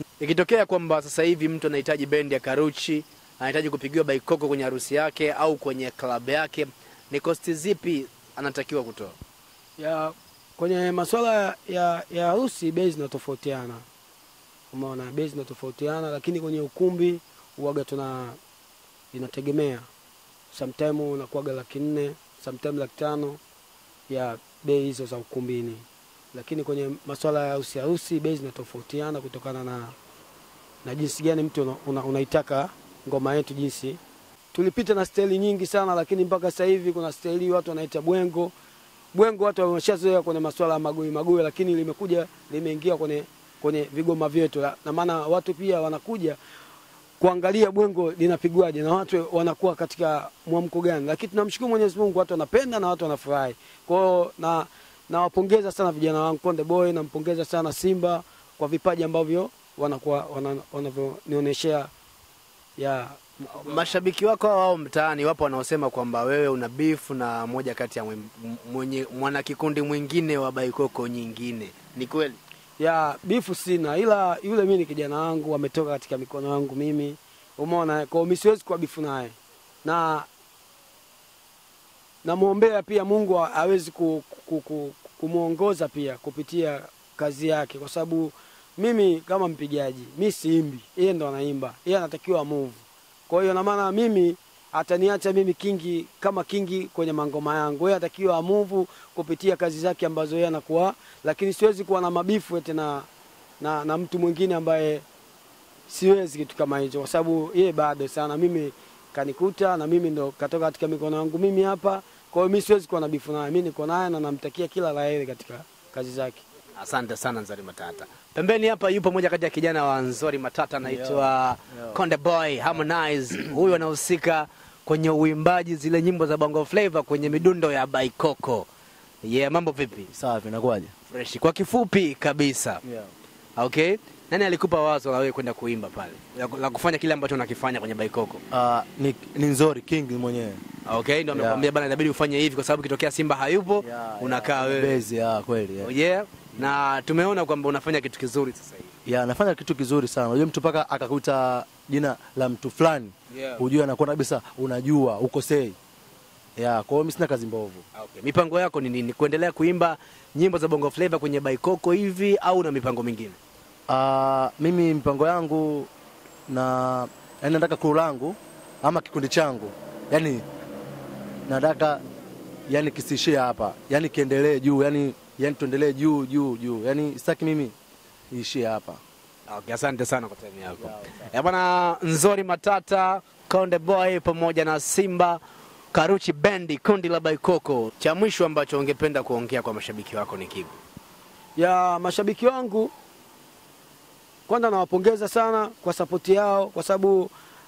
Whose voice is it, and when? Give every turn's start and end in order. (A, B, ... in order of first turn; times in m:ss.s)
0:00.2-0:09.1 A
0:09.8-0:13.8 B
0:14.7-0:18.4 B
0:19.1-0:19.9 B
0:20.5-0:23.4 B
0:24.1-0:29.9 B
0:30.8-0:34.0 B
0:34.5-0:38.5 B
0:39.1-0:46.4 B
0:47.2-1:01.9 B
1:02.8-1:03.9 B
1:03.6-1:12.4 A
1:12.8-1:20.3 B
1:22.2-1:43.1 B
1:43.6-1:45.0 B
1:45.9-1:56.4 B
1:56.8-2:08.7 A
2:00.8-2:02.0 C
2:09.2-2:10.1 A
2:10.1-2:10.9 C
2:11.1-2:12.8 A
2:12.8-2:13.1 C
2:13.6-2:18.4 A
2:18.5-2:20.6 C
2:20.8-2:25.1 A
2:21.3-2:21.7 C
2:23.8-2:25.9 C
2:25.8-2:28.9 A
2:29.0-2:35.8 C
2:33.3-2:33.6 A
2:36.6-2:37.8 C
2:37.9-2:43.4 A
2:43.9-2:45.9 C
2:46.5-2:50.4 C
2:51.5-2:52.0 C
2:52.7-2:57.7 C
2:58.3-2:59.0 C
2:59.5-3:05.4 A
3:00.8-3:01.2 C
3:05.9-3:10.8 A
3:11.6-3:12.9 B
3:14.5-3:17.3 B